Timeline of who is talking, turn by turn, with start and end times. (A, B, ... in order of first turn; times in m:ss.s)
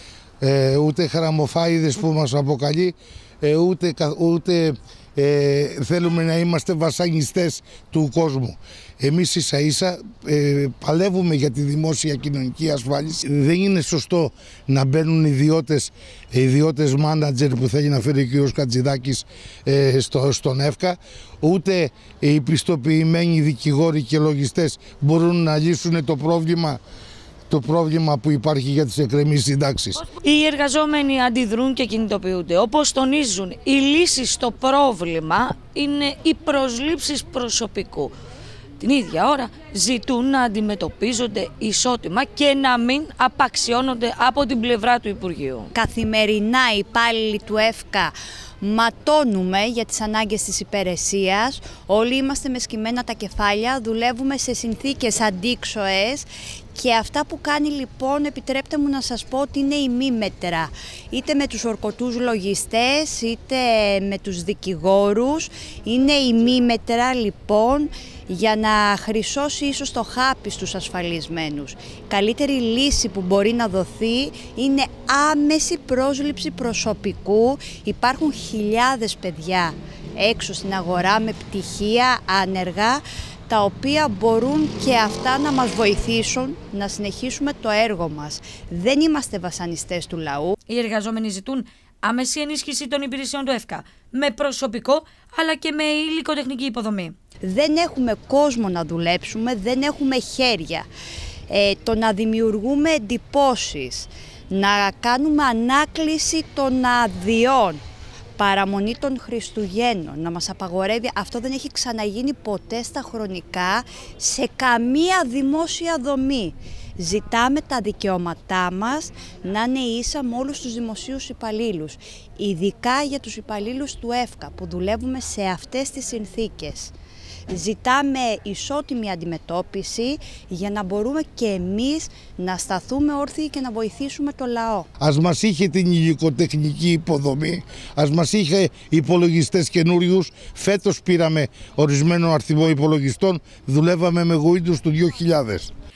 0:00.4-0:26.8 A
0:27.5-0:30.0 A
0:30.0-0:38.1 B
0:38.8-0:45.7 B
0:45.8-1:30.5 C
1:30.7-1:37.1 B
1:37.4-1:40.9 C
1:41.5-1:47.8 C
1:48.4-2:06.9 C
2:07.5-2:14.9 C
2:15.0-2:25.7 A